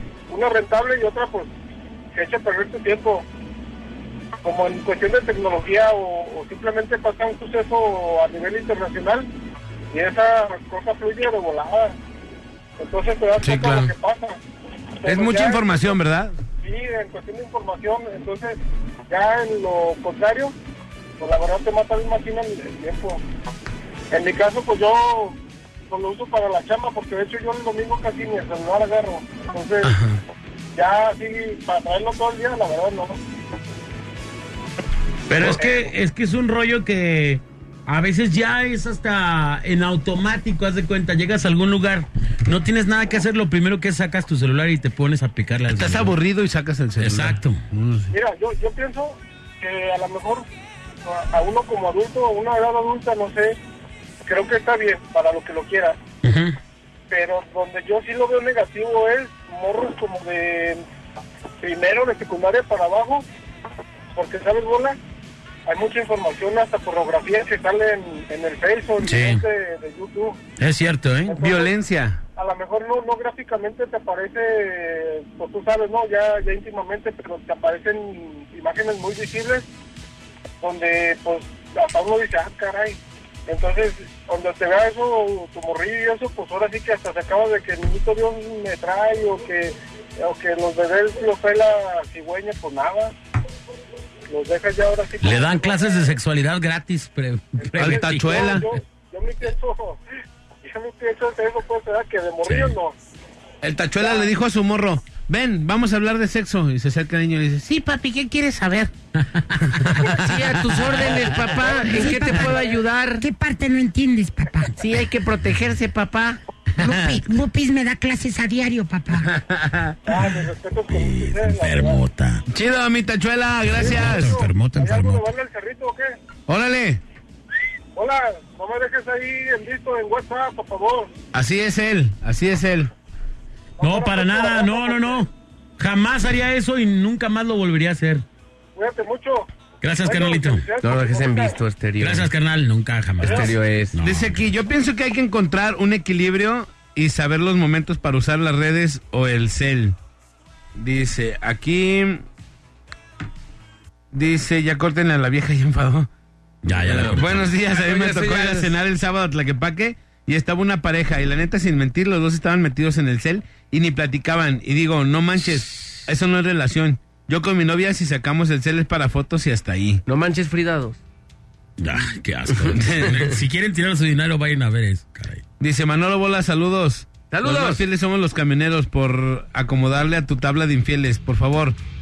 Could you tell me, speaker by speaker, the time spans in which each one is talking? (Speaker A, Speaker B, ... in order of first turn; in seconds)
Speaker A: 0.3-1.5, 2.1-3.2, 4.4-9.3, 9.9-12.0, 12.8-14.4, 15.0-16.0, 16.6-20.5, 21.2-23.2, 24.1-25.4, 25.9-29.9, 30.8-33.2, 48.1-50.4, 51.0-53.6, 54.2-56.0, 57.1-60.8, 61.6-63.2, 64.1-65.0, 65.7-70.4, 71.3-71.7, 72.4-79.7, 80.6-93.2, 94.3-96.1, 97.6-100.0, 100.6-102.9, 120.1-122.0, 123.8-126.1, 128.0-131.1, 133.8-135.3, 138.8-139.5, 140.0-141.6, 143.2-143.5
Speaker B: 13.4-13.9, 15.0-16.4, 29.9-30.2, 45.7-48.1, 71.4-72.2, 97.8-98.7, 103.6-108.9, 109.7-112.0, 116.8-117.2, 119.2-120.0, 122.5-124.4, 126.5-127.0, 131.3-132.9, 144.0-150.0, 150.8-152.2, 154.1-156.1, 156.7-170.0, 172.7-173.3, 175.6-181.8
Speaker C: 35.3-46.1, 47.0-47.6, 56.2-56.6, 69.0-69.4, 70.6-71.4, 95.2-98.6, 102.5-102.8, 109.3-110.0, 120.9-122.5, 123.7-125.3, 133.8-138.2, 139.8-140.7, 142.0-144.5, 156.6-157.5, 171.8-175.4
Speaker D: 110.0-113.3, 114.8-116.4, 140.8-142.3, 143.2-143.9, 157.7-158.8, 170.1-171.0, 177.3-177.8
Speaker E: 111.8-112.5, 113.2-114.7, 116.8-119.3